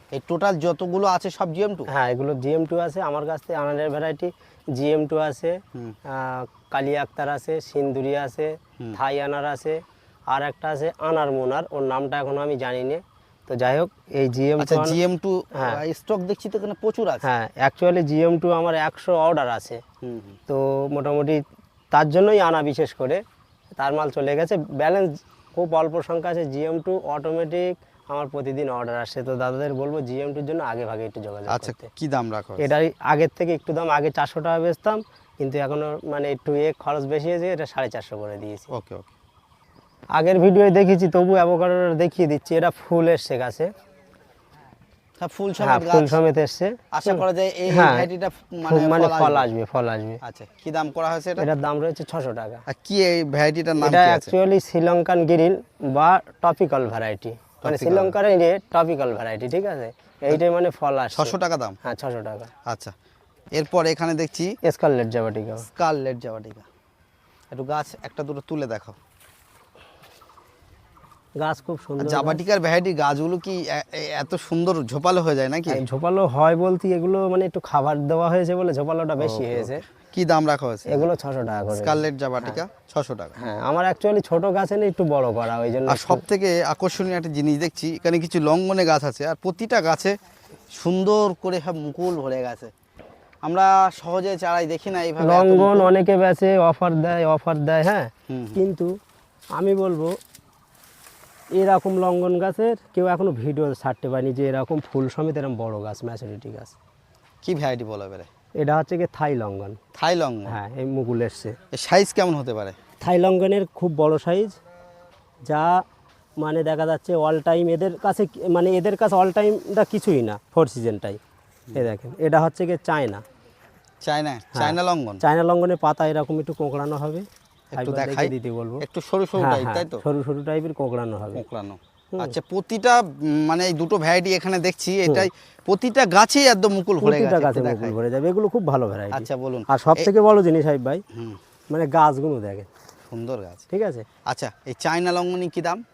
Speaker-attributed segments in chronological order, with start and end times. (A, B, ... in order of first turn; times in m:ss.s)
0:00.1-0:01.9 A
0:01.9-0:15.0 B
0:14.6-0:17.2 A
0:15.5-0:15.8 B
0:17.2-0:19.8 B
0:20.0-0:20.4 A
0:20.5-0:23.2 B
0:23.8-0:31.9 B
0:31.5-0:32.7 A
0:32.6-0:38.7 B
0:38.7-0:39.1 A
0:40.1-0:43.7 B
0:45.2-0:46.2 A
0:45.6-0:48.1 B
0:46.9-0:49.5 A
0:48.6-0:50.2 B
0:50.2-0:51.5 A
0:51.4-0:52.6 B
0:52.7-0:54.4 A
0:53.8-1:02.5 B
0:57.6-0:58.2 A
1:01.1-1:01.8 A
1:02.6-1:02.9 A
1:03.5-1:04.6 A
1:04.6-1:05.7 B
1:05.6-1:06.7 A
1:07.5-1:09.0 A
1:11.4-1:12.4 B
1:12.0-1:15.8 A
1:15.7-1:19.8 B
1:19.2-1:21.1 A
1:20.9-1:22.6 B
1:21.7-1:23.4 A
1:23.4-1:26.2 B
1:25.9-1:30.2 A
1:30.7-1:32.7 A
1:33.4-1:35.9 A
1:35.2-1:38.9 B
1:38.3-1:38.6 A
1:39.6-1:40.2 B
1:41.5-1:46.7 B
1:47.4-1:48.3 A
1:48.6-1:49.8 B
1:49.9-1:50.6 A
1:50.5-1:51.6 B
1:51.7-1:52.8 A
1:53.0-1:54.6 B
1:55.4-1:55.8 B
1:56.4-2:01.2 B
2:01.7-2:03.2 B
2:04.0-2:05.2 A
2:04.5-2:08.8 B
2:07.7-2:10.0 A
2:09.4-2:11.4 B
2:11.3-2:18.0 A
2:17.0-2:21.0 B
2:19.1-2:20.1 A
2:21.1-2:21.4 A
2:21.7-2:22.7 B
2:23.1-2:23.6 A
2:23.7-2:24.1 B
2:24.2-2:25.8 A